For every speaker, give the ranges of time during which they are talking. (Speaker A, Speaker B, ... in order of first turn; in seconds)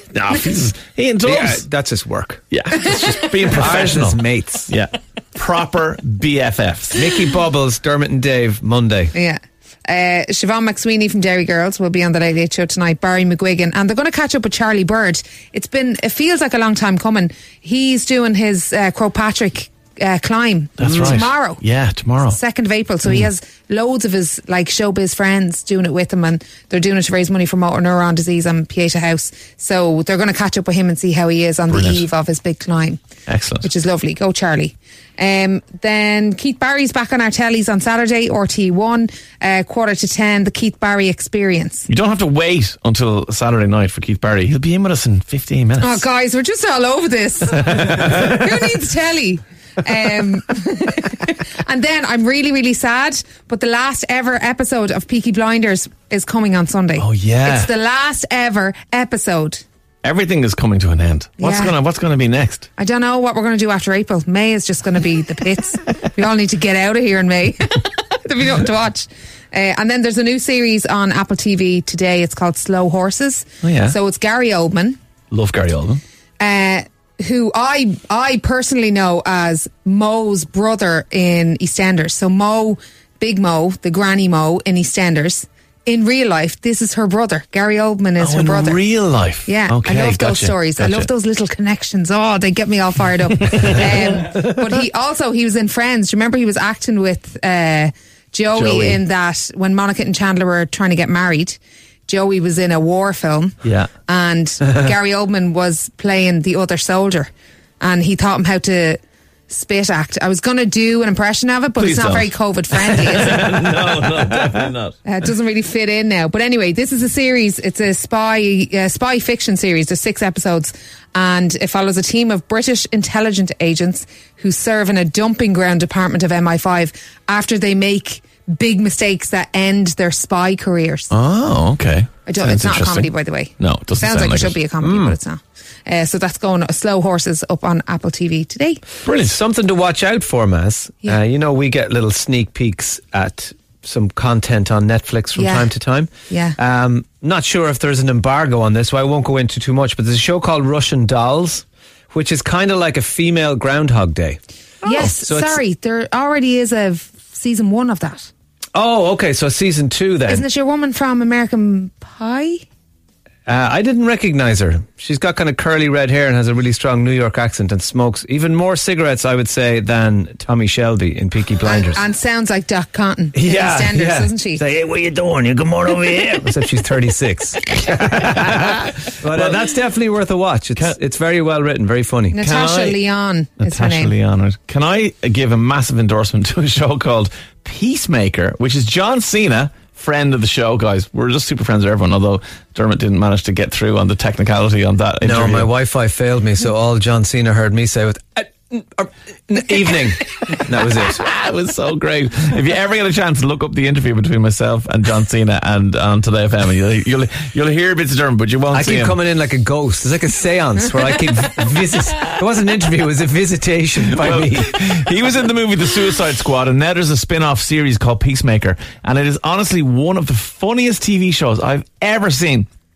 Speaker A: 0.1-1.6, 2.5-7.0, 20.8-22.4, 31.7-32.0, 33.3-33.7, 41.9-46.0, 47.6-48.3, 57.0-57.7, 60.0-62.7, 73.6-74.0, 75.3-76.0, 88.2-91.1, 98.5-99.0, 103.6-103.9, 111.8-115.0, 131.1-134.6, 139.0-139.4, 179.3-179.6, 183.6-195.7, 200.9-209.2, 214.2-222.7
Speaker B: 1.2-2.4, 3.5-4.7, 6.9-9.1, 134.8-135.2, 139.2-155.6, 158.7-160.4, 163.5-172.0, 173.3-183.0, 195.2-201.2, 208.7-214.9
Speaker C: 9.1-21.6, 22.2-33.0, 33.6-41.9, 45.8-59.6, 61.4-61.8, 62.8-75.0, 76.4-88.8, 89.5-113.7, 115.0-131.1, 132.2-138.8, 145.3-145.7, 146.3-146.6, 154.8-158.3, 160.3-162.6, 171.6-174.7, 182.3-184.2